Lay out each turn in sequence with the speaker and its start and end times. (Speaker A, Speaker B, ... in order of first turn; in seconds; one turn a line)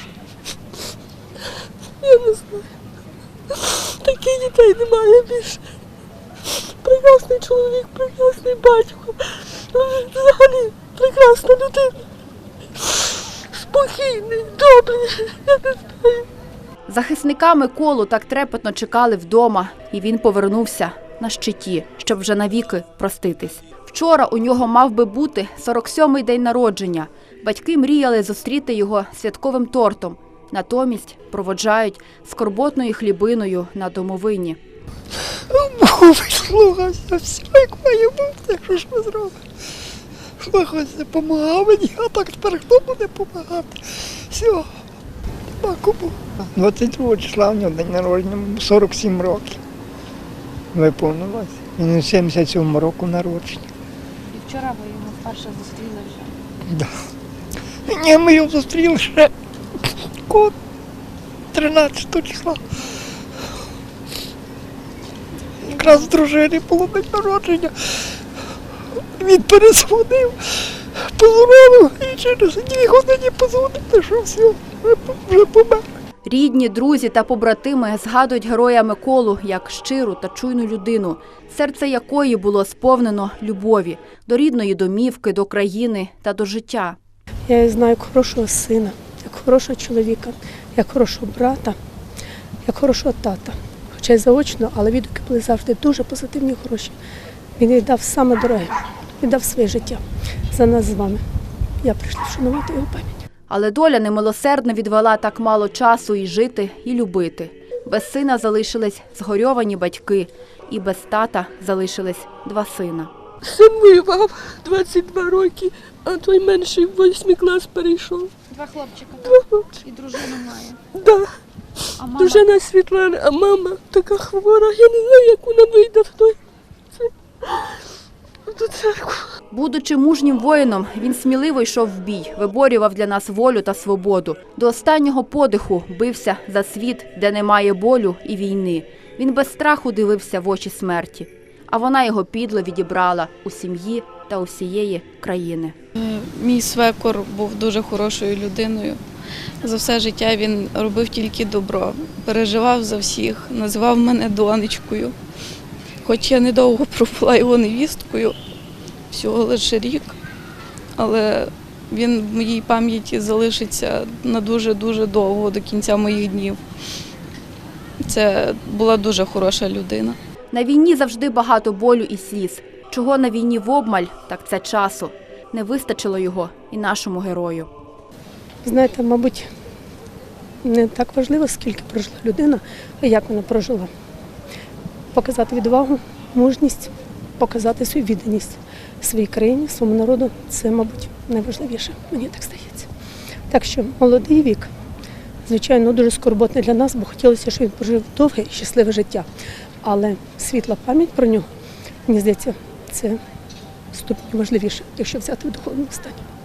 Speaker A: 2.0-2.7
Speaker A: 3.5-5.6
Speaker A: 6.5-12.0
Speaker A: 12.8-16.3
Speaker B: 16.9-34.6
Speaker C: 35.3-39.4
Speaker C: 40.4-44.7
Speaker C: 45.6-49.6
Speaker C: 50.7-53.7
Speaker D: 54.3-56.3
Speaker C: 56.7-56.9
Speaker C: 57.9-59.3
Speaker C: 59.8-60.5
Speaker C: 61.5-62.6
Speaker C: 65.6-68.0
Speaker D: 65.7-66.0
Speaker C: 69.2-75.8
Speaker B: 76.2-87.0
Speaker E: 87.5-91.8
Speaker E: 92.7-97.0
Speaker E: 97.6-101.2
Speaker E: 101.8-103.2
Speaker B: 103.5-113.1
Speaker A: 113.4-118.3
Speaker D: 118.5-120.8
Speaker A: 119.2-121.3
Speaker A: 121.9-126.4
Speaker D: 122.0-122.5
Speaker A: 127.0-127.8
Speaker A: 128.5-129.3
Speaker B: 129.5-145.8
Speaker F: 145.9-149.0
Speaker F: 149.6-155.1
Speaker F: 156.0-158.4
Speaker F: 159.1-160.2
Speaker F: 160.9-166.6
Speaker F: 168.0-170.2
Speaker B: 170.5-177.7
Speaker E: 178.6-179.5
Speaker E: 180.6-183.9
Speaker E: 185.1-192.9
Speaker E: 193.5-194.7
Speaker E: 195.5-199.3
Speaker E: 199.8-201.4
Speaker E: 202.1-203.2
Speaker E: 203.9-206.2